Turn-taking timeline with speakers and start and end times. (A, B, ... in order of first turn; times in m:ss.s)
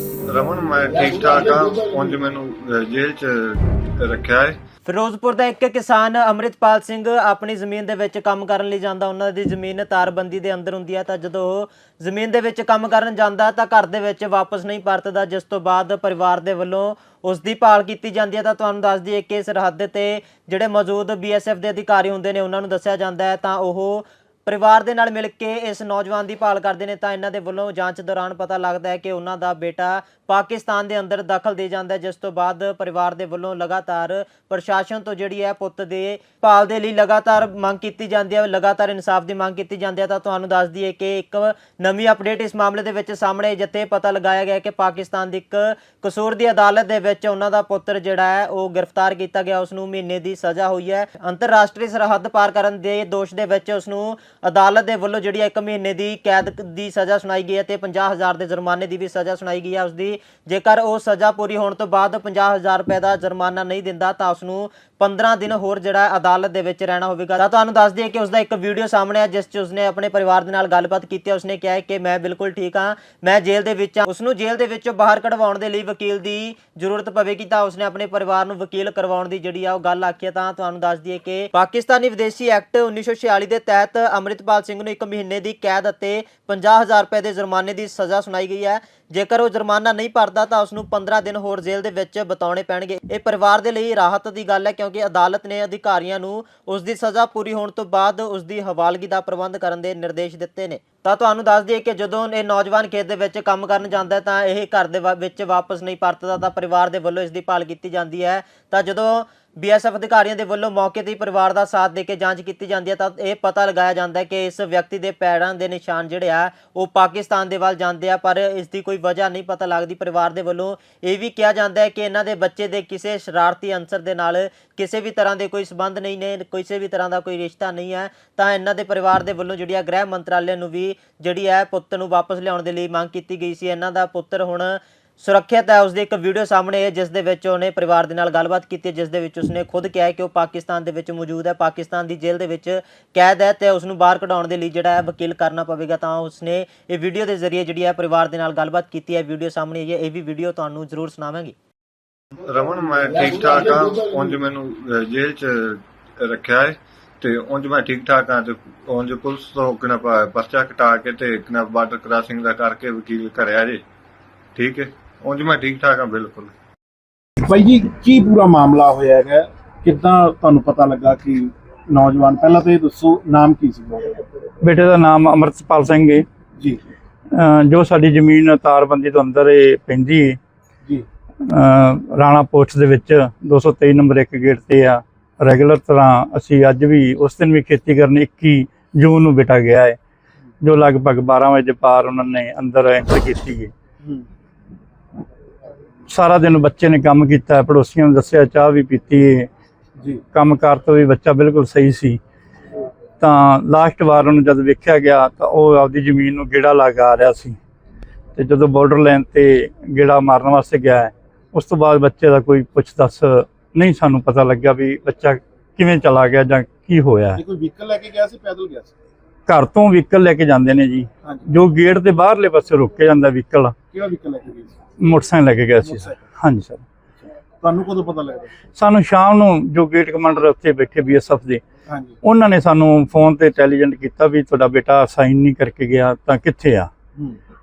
0:00.3-0:04.6 A
0:04.8-2:31.5 B
2:32.4-2:43.8 A
2:44.6-2:46.5 A
2:47.4-2:54.2 C
2:54.6-2:56.2 D
2:57.3-3:00.4 D
3:01.4-3:10.0 D
3:10.6-3:13.7 D
3:16.1-3:19.5 D
3:20.3-3:22.2 D
3:23.2-3:27.6 D
3:28.4-3:37.4 D
3:37.4-3:38.9 C
3:39.5-3:43.7 D
3:43.9-3:44.8 C
3:45.0-3:46.8 D
3:45.8-3:46.3 C
3:47.2-3:48.5 C
3:48.8-3:51.6 D
3:51.9-3:52.2 C
3:52.2-3:56.9 D